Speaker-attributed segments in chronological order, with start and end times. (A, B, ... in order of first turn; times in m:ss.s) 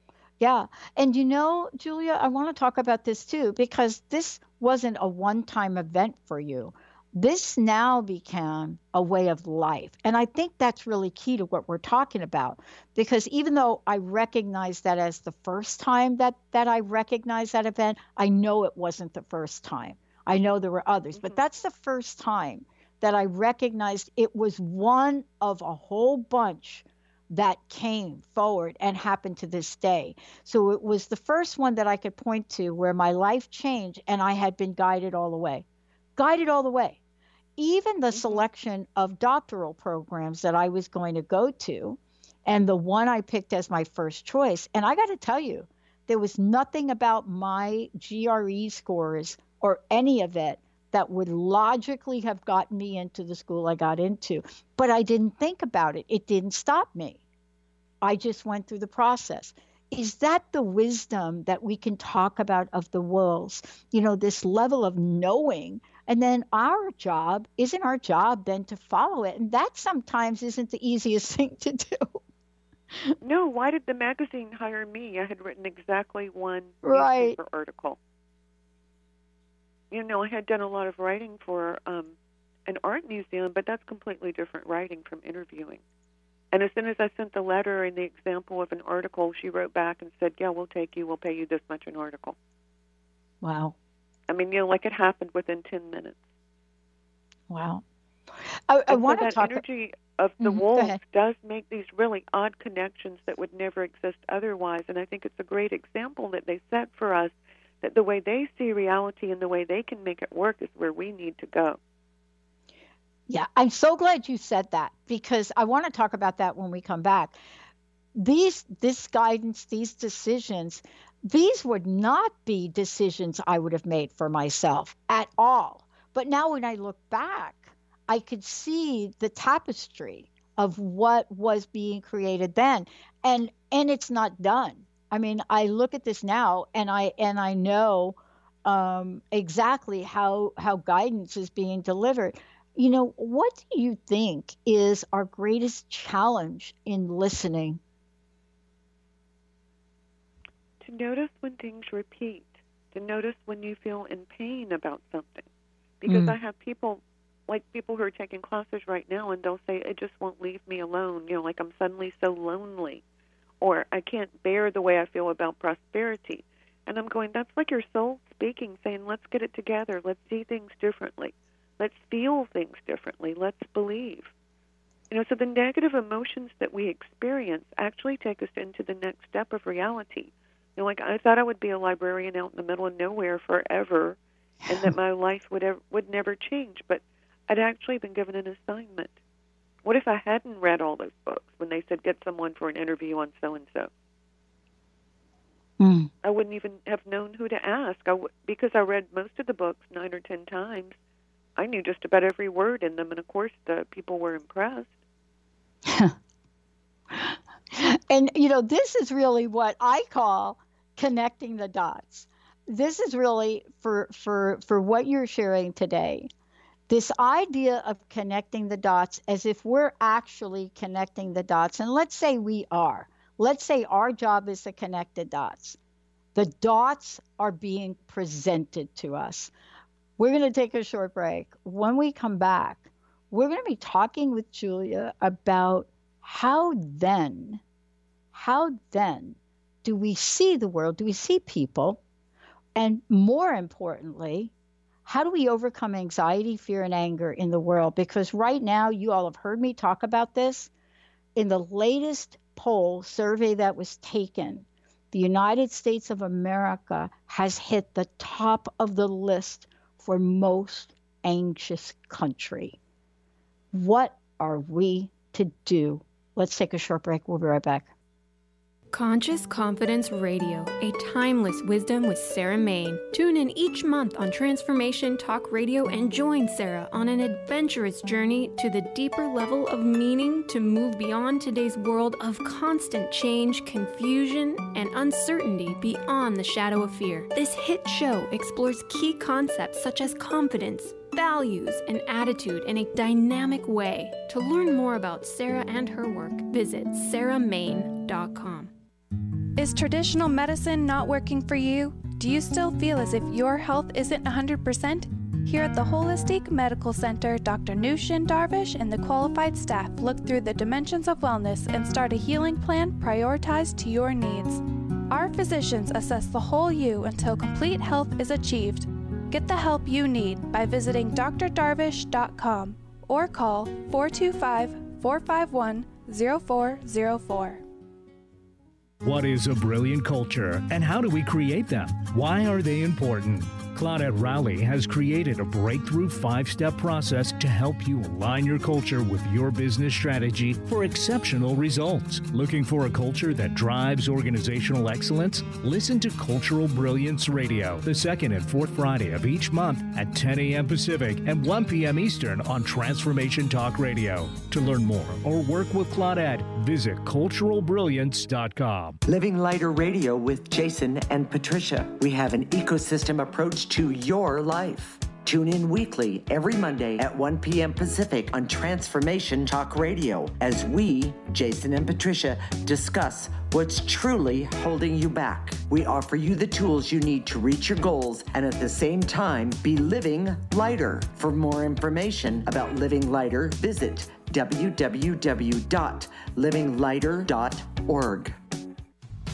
0:00.4-0:35.6 A
0:21.1-0:21.4 B
0:36.2-0:37.0 A
0:37.6-0:57.2 A
0:38.1-0:38.4 B
0:58.0-1:12.2 A
1:13.2-1:18.0 B
1:16.8-1:17.4 A
1:19.9-1:22.2 B
1:22.7-1:25.8 B
1:26.5-1:32.4 B
1:33.4-1:33.7 A
1:34.3-1:36.2 B
1:37.5-1:37.8 A
1:38.7-1:39.6 A
1:38.9-1:51.8 B
1:40.4-1:41.0 A
1:53.3-1:57.4 A
1:58.1-2:27.8 A
2:30.8-2:35.4 B
2:36.0-2:43.0 B
2:36.0-2:36.4 A
2:43.6-2:54.3 B
2:55.1-3:04.2 B
3:04.7-3:09.2 B
3:09.8-3:13.9 B
3:15.8-3:16.1 A
3:16.2-3:21.0 B
3:21.6-3:24.9 B
3:25.8-3:26.1 A
3:27.1-3:36.3 A
3:36.9-3:45.8 A
3:46.3-3:49.5 A
3:50.2-3:57.6 A
3:58.3-4:02.0 A
4:02.7-4:04.5 A
4:05.0-4:10.7 A
4:11.3-4:22.8 A
4:23.7-4:27.9 A
4:28.9-4:58.7 C
4:59.6-5:27.6 D
5:29.0-5:59.0 E
5:59.0-6:28.4 F